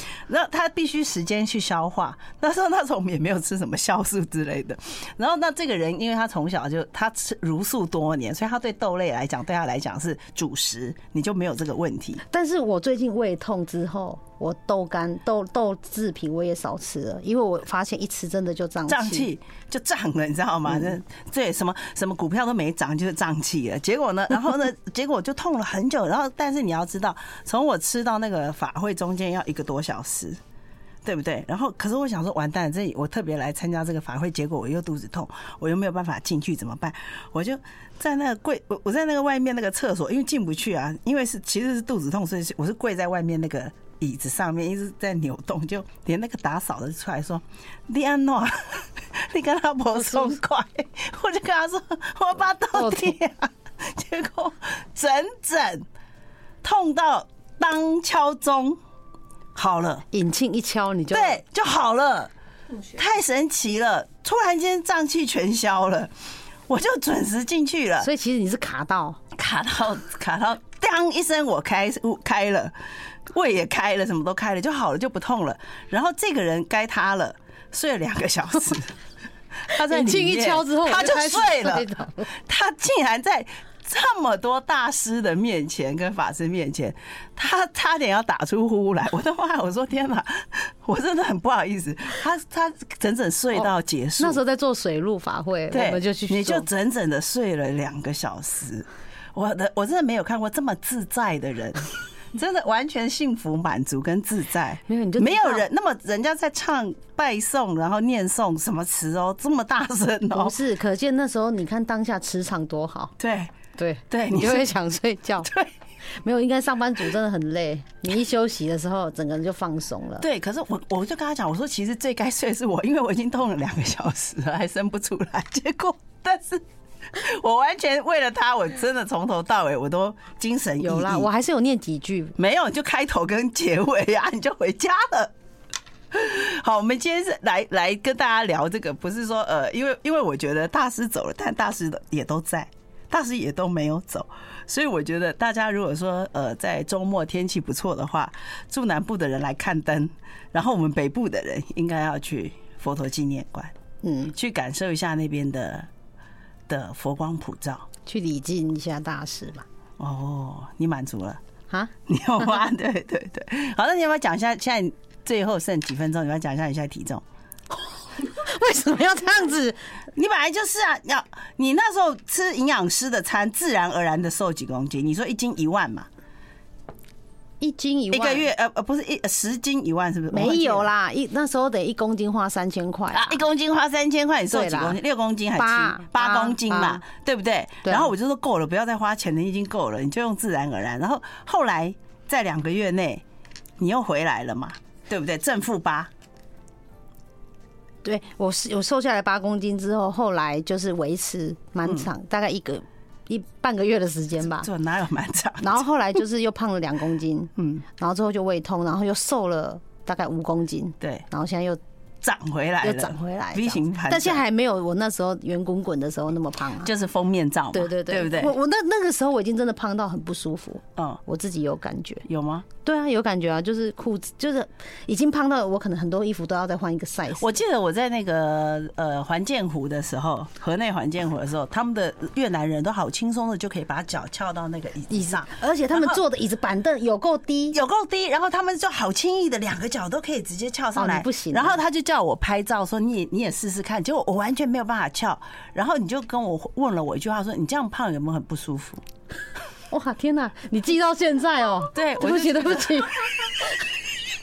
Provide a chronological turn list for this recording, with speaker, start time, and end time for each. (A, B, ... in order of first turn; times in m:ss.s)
0:00.3-0:12.2 A
0:12.3-0:19.3 B
0:18.9-0:30.4 A
0:31.0-0:55.9 A
0:52.7-0:53.1 B
0:56.6-0:58.8 A
0:59.6-1:00.1 A
1:00.1-1:01.4 B
1:01.1-1:02.3 A
1:02.9-1:06.1 A
1:06.7-1:08.1 A
1:08.0-1:09.2 B
1:09.3-1:12.7 A
1:13.3-1:19.0 A
1:19.6-1:34.4 A
1:19.7-1:22.3 B
1:33.6-1:36.7 B
1:35.7-1:50.6 A
1:44.9-1:45.7 B
1:50.3-1:53.1 B
1:53.2-1:53.5 A
1:53.7-1:55.5 B
1:54.1-1:54.7 A
1:55.4-1:55.7 A
1:56.1-2:00.3 B
2:00.2-2:11.3 A
2:10.8-2:12.4 B
2:12.4-2:15.3 A
2:16.1-2:33.7 A
2:34.0-2:34.3 B
2:34.3-2:35.9 A
2:36.7-2:37.9 A
2:38.1-2:39.6 B
2:40.0-2:41.4 A
2:42.1-2:47.2 A
2:48.2-2:49.8 B
2:50.1-2:56.1 A
2:57.6-2:58.5 B
2:58.1-3:00.9 A
3:00.3-3:03.4 B
3:03.1-3:13.2 A
3:04.5-3:05.0 B
3:05.6-3:07.0 B
3:07.8-3:08.1 B
3:13.8-3:16.1 A
3:18.0-3:24.7 B
3:24.5-3:25.8 A
3:25.6-3:31.8 B
3:27.6-3:27.8 A
3:32.2-3:34.4 A
3:32.8-3:36.9 B
3:36.8-3:38.5 A
3:37.7-3:42.2 B
3:42.2-3:42.7 A
3:42.8-3:47.6 B
3:47.4-3:56.2 A
3:55.1-3:57.8 B
3:57.7-4:09.0 A
4:01.0-4:01.8 B
4:09.9-4:14.0 B
4:11.9-4:13.3 A